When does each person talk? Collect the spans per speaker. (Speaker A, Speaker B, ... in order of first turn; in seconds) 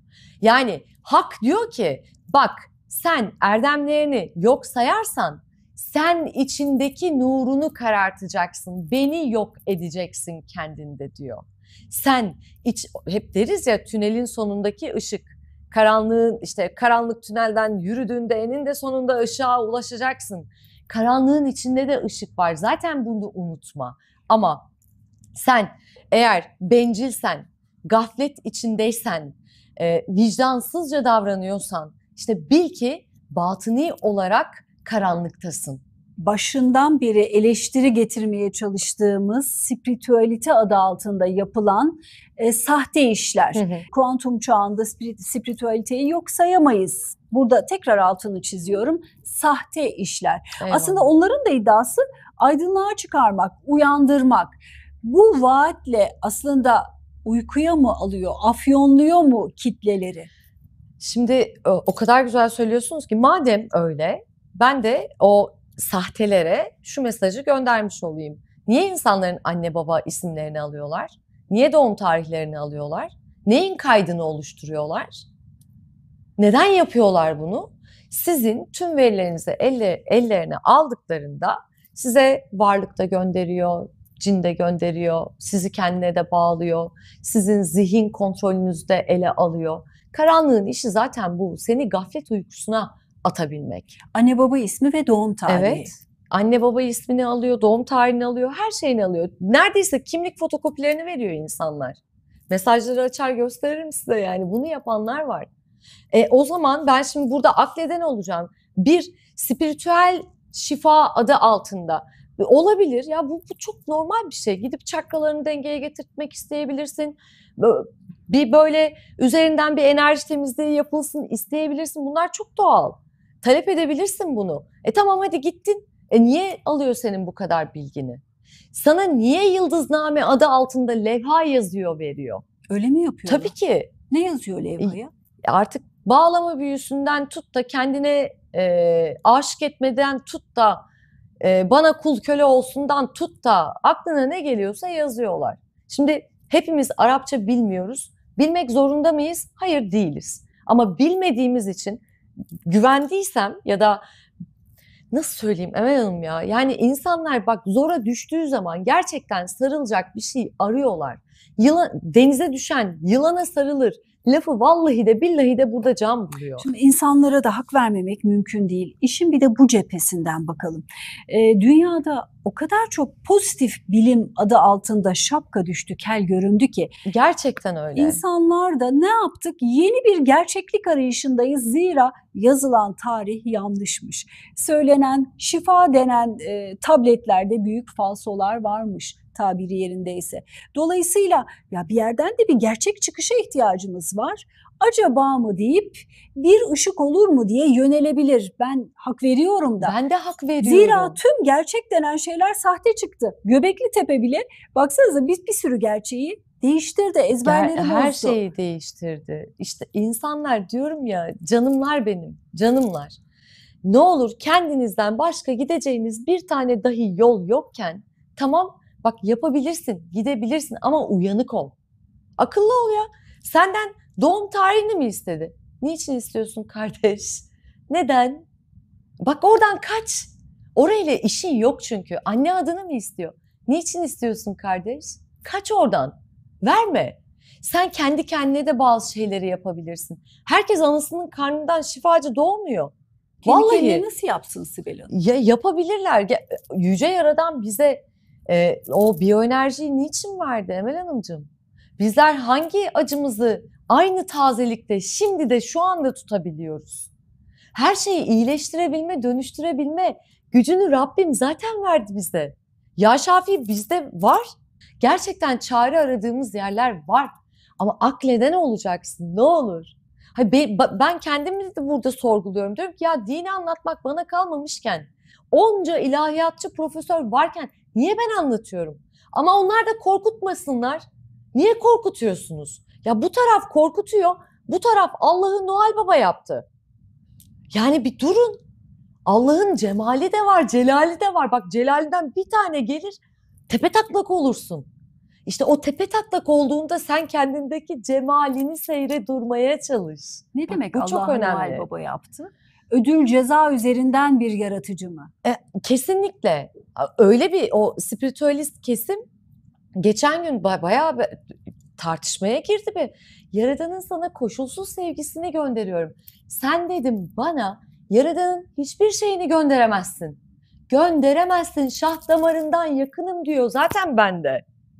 Speaker A: 0.4-24.6, 25.3-35.8, 43.5-43.8, 50.6-51.1, 61.0-75.2, 76.4-94.0, 95.5-105.5, 106.1-128.2, 128.7-132.4, 133.3-133.9, 134.8-140.8, 141.4-152.0, 152.6-154.0, 155.1-166.7, 177.1-178.2, 199.8-201.2, 207.4-213.2, 213.8-221.7, 222.4-228.4, 229.2-242.9, 243.4-244.0, 245.1-257.1, 257.7-281.0, 281.5-286.6, 287.7-288.6, 289.2-293.1, 293.7-294.9, 295.4-301.9, 305.4-309.2, 309.9-320.4, 320.9-324.6
Speaker B: 36.2-60.3, 94.1-95.9, 132.7-133.5, 134.1-135.1, 166.6-176.9, 177.9-199.9, 200.6-208.4, 243.4-245.1, 300.5-305.3